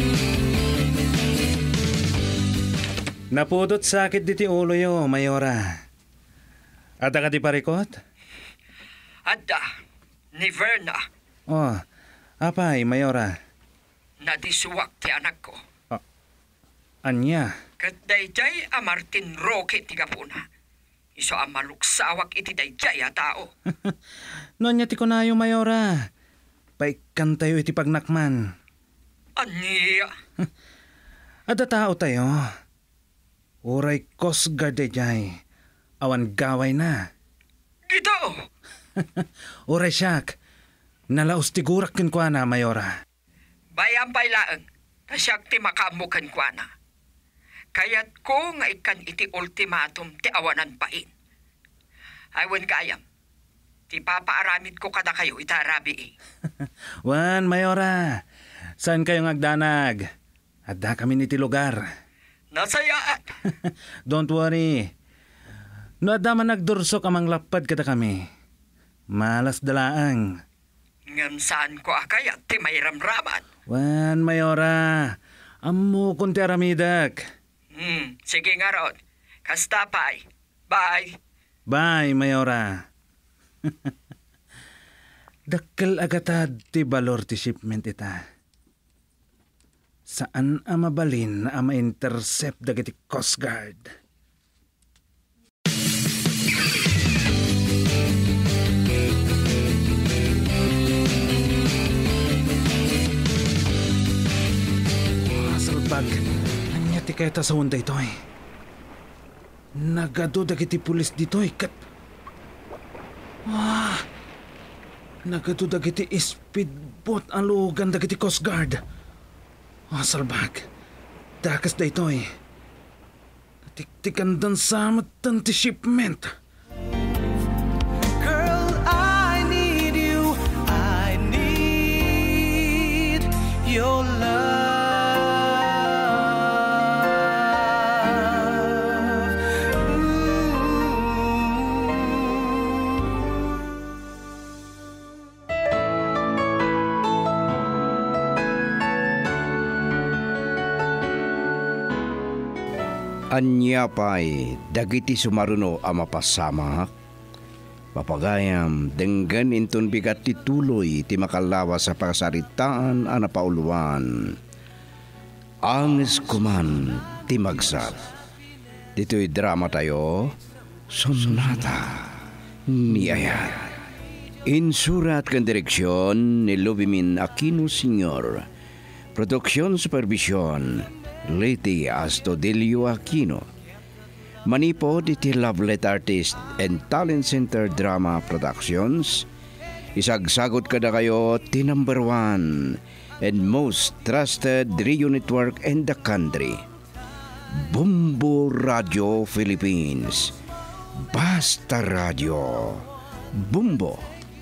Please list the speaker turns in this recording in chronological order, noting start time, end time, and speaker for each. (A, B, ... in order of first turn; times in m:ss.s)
0:03.3-0:05.7 A
0:07.0-0:07.9 A
0:09.2-0:09.7 B
0:10.3-0:11.0 B
0:11.5-0:11.8 A
0:12.4-0:13.3 A
0:14.2-0:15.6 B
0:17.0-0:17.5 A
0:17.8-0:20.4 B
0:21.2-0:23.5 B
0:24.6-0:25.9 A
0:26.8-0:28.4 A
0:29.4-0:30.1 B
0:31.5-0:32.4 A
0:33.6-0:35.4 A
0:36.0-0:37.1 A
0:37.9-0:38.4 B
0:39.0-0:40.4 A
0:41.1-0:42.9 A
0:43.7-0:46.7 B
0:47.7-0:51.1 B
0:52.3-0:53.0 B
0:53.9-0:56.1 B
0:57.0-0:58.2 A
0:58.8-1:00.0 A
1:00.7-1:01.8 A
1:02.5-1:03.3 B
1:03.7-1:04.9 A
1:06.0-1:08.2 A
1:09.1-1:10.4 A
1:11.1-1:13.4 B
1:13.7-1:17.2 A
1:17.7-1:21.2 B
1:21.7-1:22.8 A
1:23.6-1:23.9 A
1:25.5-1:28.2 A
1:30.1-1:33.9 A
1:45.2-1:48.1 A
1:49.8-1:51.8 A
1:53.5-1:54.0 A
1:55.2-1:58.8 A
1:59.9-2:00.6 A
2:01.4-2:02.2 A
2:03.7-2:06.3 A
2:08.2-2:19.3 C
2:19.8-2:20.8 C
2:33.3-2:36.9 D
2:37.9-2:44.4 D
2:45.6-2:48.0 D
2:49.0-2:50.4 D
2:50.9-2:52.1 D
2:52.7-2:53.7 D
2:54.4-2:58.4 D
2:59.1-3:03.4 D
3:04.4-3:09.2 D
3:10.0-3:16.6 D
3:17.5-3:20.3 D
3:21.1-3:24.1 D